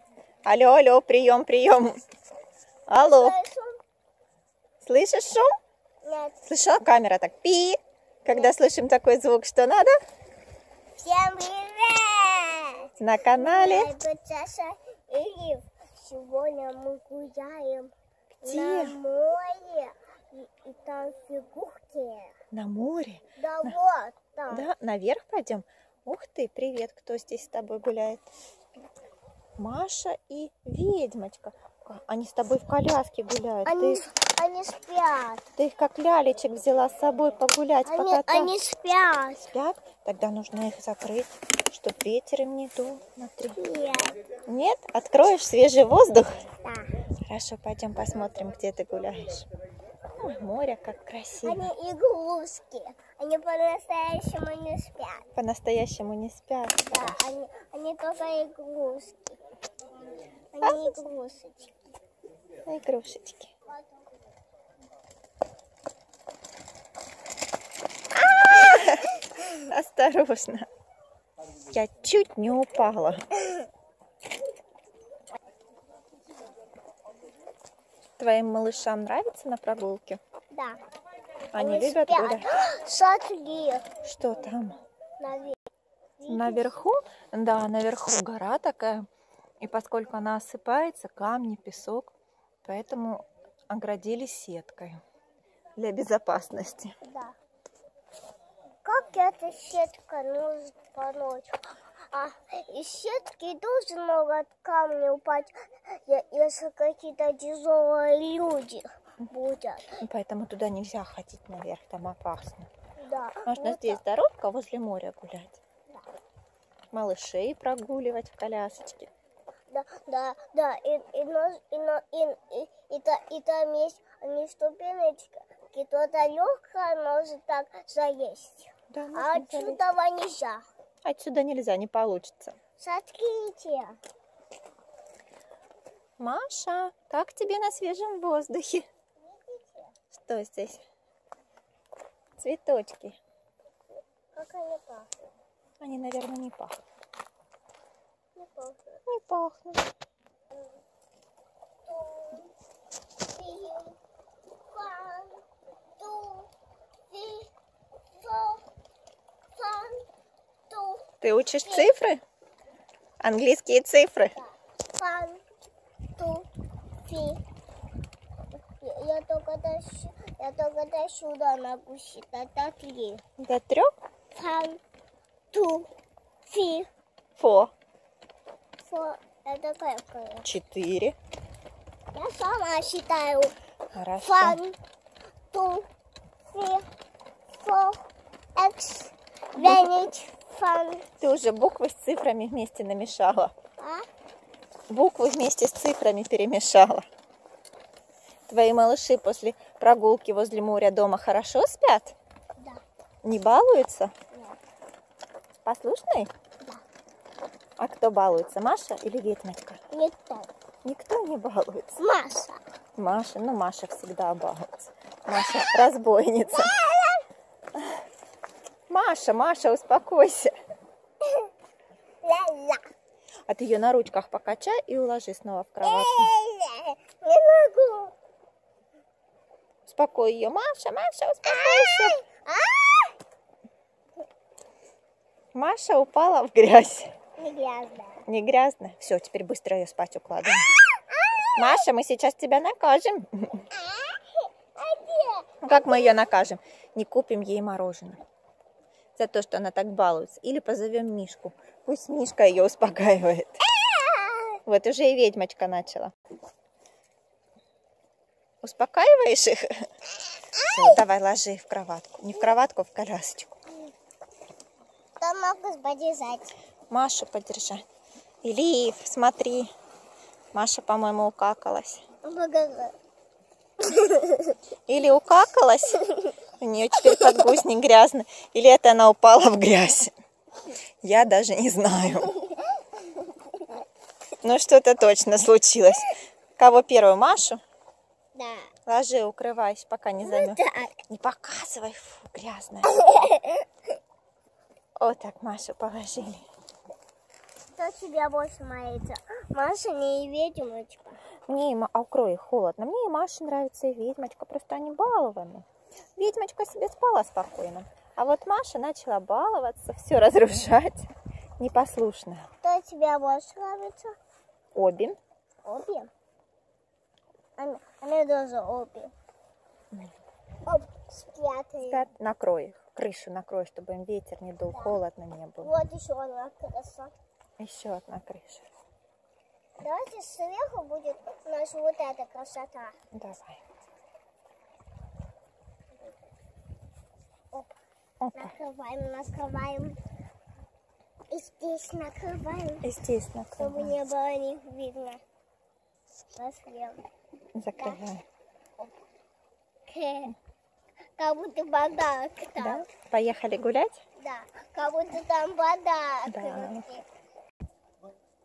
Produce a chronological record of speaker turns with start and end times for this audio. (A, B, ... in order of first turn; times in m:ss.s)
0:00.4-0:02.0 A
0:02.9-0:03.4 A
0:03.0-0:03.8 B
0:04.8-0:05.5 A
0:06.0-0:06.4 B
0:06.4-0:09.9 A
0:08.3-0:08.5 B
0:11.0-0:22.3 B
0:13.0-0:13.9 A
0:18.4-0:19.0 A
0:22.5-0:23.8 A
0:23.4-0:24.7 B
0:24.5-0:28.2 A
0:29.6-0:34.0 A
0:33.6-0:35.5 B
0:35.6-0:38.5 A
0:37.8-0:39.5 B
0:39.5-0:43.6 A
0:43.6-0:44.2 B
0:44.5-0:46.4 A
0:46.6-0:46.9 B
0:47.3-0:49.5 A
0:50.2-0:51.7 A
0:51.4-0:55.2 B
0:55.3-0:57.2 A
0:56.8-0:59.4 B
1:00.5-1:01.7 B
1:00.6-1:01.0 A
1:02.6-1:03.5 A
1:08.1-1:10.7 A
1:11.7-1:13.3 A
1:18.2-1:20.2 A
1:20.5-1:20.8 B
1:21.5-1:22.5 A
1:21.5-1:23.8 B
1:24.0-1:24.8 A
1:25.2-1:25.6 B
1:26.2-1:26.7 B
1:26.3-1:29.1 A
1:29.6-1:32.1 A
1:32.6-1:35.0 A
1:35.8-1:37.0 A
1:37.0-1:37.4 B
1:38.8-1:49.9 B
1:50.0-1:52.7 A
1:53.0-1:54.0 B
1:53.4-1:55.6 A
1:56.9-1:59.1 A
1:59.7-2:10.6 B
2:08.9-2:09.8 A
2:11.0-2:12.6 A
2:12.8-2:14.0 B
2:16.2-2:18.8 A
2:19.2-2:19.9 B
2:20.1-2:20.8 A
2:22.4-2:23.2 A
2:23.9-2:25.2 B
2:25.8-2:26.8 A
2:28.4-2:29.0 B
2:29.0-2:29.8 A
2:31.8-2:32.5 B
2:33.2-2:34.0 B
2:34.7-2:35.4 B
2:36.0-2:36.5 B
2:37.1-2:37.5 B
2:38.1-2:38.6 B
2:39.5-2:40.0 B
2:40.7-2:41.0 B
2:41.2-2:42.2 A
2:41.6-2:41.9 B
2:43.2-2:44.4 A
2:44.4-2:45.4 B
2:46.2-2:46.5 B
2:47.0-2:47.4 B
2:48.8-2:53.2 B
2:53.4-2:53.9 A
2:54.3-2:54.8 B
2:55.5-2:55.9 B
2:56.5-2:56.9 B
2:57.4-2:57.7 A
2:58.8-3:00.5 B
3:00.4-3:01.2 A
3:02.1-3:03.5 B
3:03.9-3:04.6 A
3:04.2-3:04.8 B
3:05.5-3:05.9 B
3:06.5-3:06.8 B
3:07.6-3:08.0 B
3:08.6-3:11.0 B
3:09.6-3:09.8 A
3:11.2-3:13.5 A
3:13.8-3:14.0 B
3:14.9-3:17.1 A
3:18.5-3:22.1 A
3:23.2-3:24.1 A
3:25.6-3:26.3 A
3:27.8-3:29.8 A
3:29.9-3:30.5 B
3:30.8-3:32.0 A
3:32.0-3:32.6 B
3:33.0-3:36.7 A
3:35.4-3:35.6 B
3:36.5-3:37.2 B
3:38.9-3:40.5 A
3:42.2-3:42.8 B
3:43.5-3:46.3 A
3:45.8-3:48.1 B
3:49.9-3:52.2 A
3:51.4-3:53.1 B
3:55.5-3:57.1 A
3:57.4-3:58.2 B
3:58.3-4:00.7 A
4:00.9-4:01.8 B
4:01.6-4:03.7 A
4:03.7-4:06.2 B
4:05.6-4:08.2 A
4:09.2-4:13.6 A
4:13.8-4:14.6 B
4:14.6-4:16.1 A
4:18.6-4:19.8 A
4:20.6-4:21.0 B
4:20.6-4:23.6 A
4:25.2-4:26.5 B
4:26.9-4:27.8 A
4:28.4-4:29.7 A
4:30.5-4:32.0 A
4:32.2-4:32.9 B
4:33.8-4:34.6 B
4:34.9-4:36.0 A
4:36.6-4:40.1 A
4:41.0-4:42.4 A
4:44.4-4:47.6 A
4:48.3-4:48.7 B
4:48.9-4:53.0 A
4:50.2-4:51.0 B
4:52.9-4:53.6 B
4:55.0-4:56.4 A
4:57.8-5:01.2 B
5:01.5-5:05.6 A
5:06.2-5:12.5 A
5:12.6-5:14.2 B
5:14.7-5:15.2 A
5:15.6-5:16.1 B
5:17.6-5:19.1 B
5:20.6-5:22.0 B
5:21.8-5:25.7 A
5:24.7-5:25.0 B
5:25.6-5:27.1 B
5:27.6-5:28.6 A
5:29.8-5:33.0 B
5:33.1-5:33.6 A
5:37.5-5:37.8 B
5:38.2-5:38.5 A
5:38.3-5:40.0 B
5:41.3-5:42.8 B
5:42.8-5:44.0 A
5:43.6-5:45.2 B
5:46.3-5:47.0 B
5:47.5-5:48.2 A
5:49.9-5:50.3 B
5:51.2-5:52.8 B
5:52.6-5:54.0 A
5:54.2-5:57.0 B
5:56.3-5:56.9 A